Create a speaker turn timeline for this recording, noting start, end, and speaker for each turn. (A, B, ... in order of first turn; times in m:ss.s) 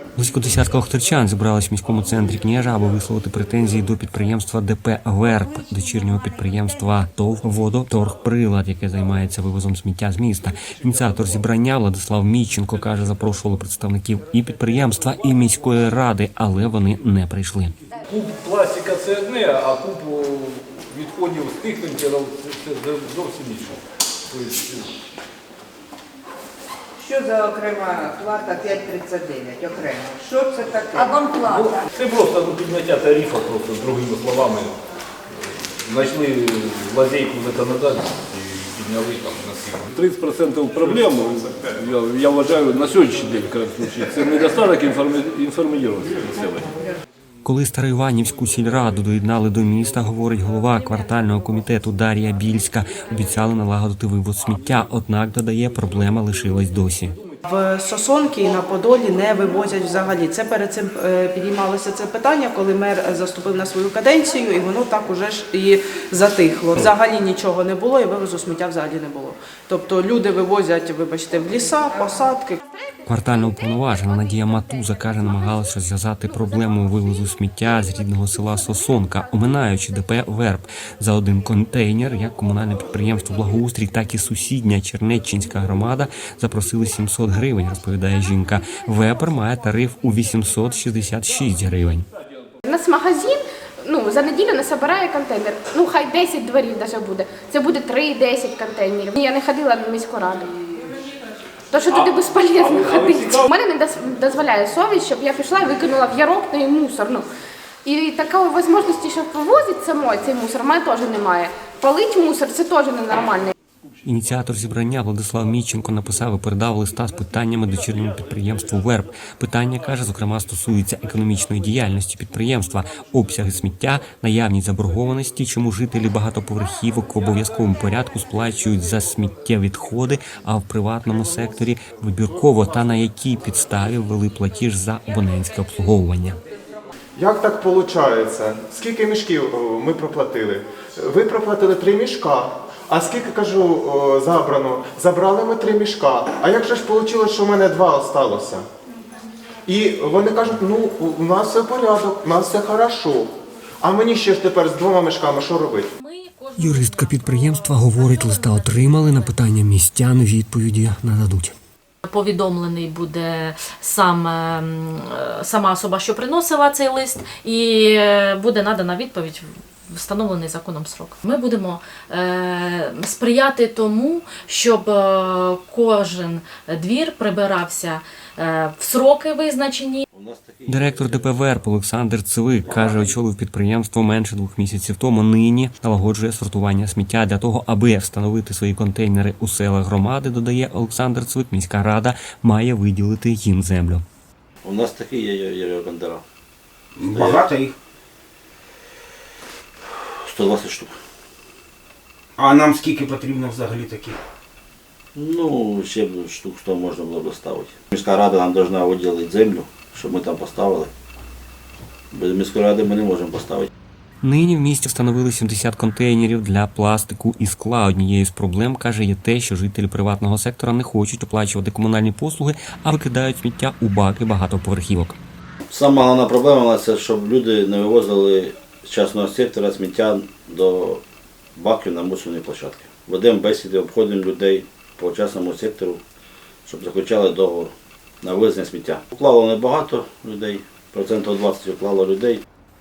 0:00.2-0:17.7 A
0:18.1-0:24.9 B
0:27.0-0:31.8 C
0:31.5-0:34.8 B
0:35.6-0:46.6 B
0:47.4-0:57.2 A
0:57.4-1:12.6 D
1:13.0-1:32.1 A
1:32.6-1:40.5 E
1:41.7-1:47.2 E
1:42.8-1:43.4 B
1:47.8-1:53.5 E
1:54.0-2:16.4 A
2:17.2-2:28.6 F
2:29.7-2:33.3 F
2:33.8-2:35.9 F
2:36.0-2:39.3 G
2:36.6-2:41.5 A
2:42.0-3:00.0 G
3:00.1-3:01.7 H
3:00.7-3:14.0 A
3:02.6-3:03.2 H
3:14.6-3:16.2 H
3:17.0-3:17.7 I
3:17.1-3:17.5 H
3:19.9-3:21.0 H
3:22.4-3:24.2 I
3:25.1-3:30.9 H
3:32.1-3:33.7 H
3:34.2-3:45.2 A
3:45.7-3:51.0 H
3:51.6-3:56.0 H
3:56.6-4:02.4 H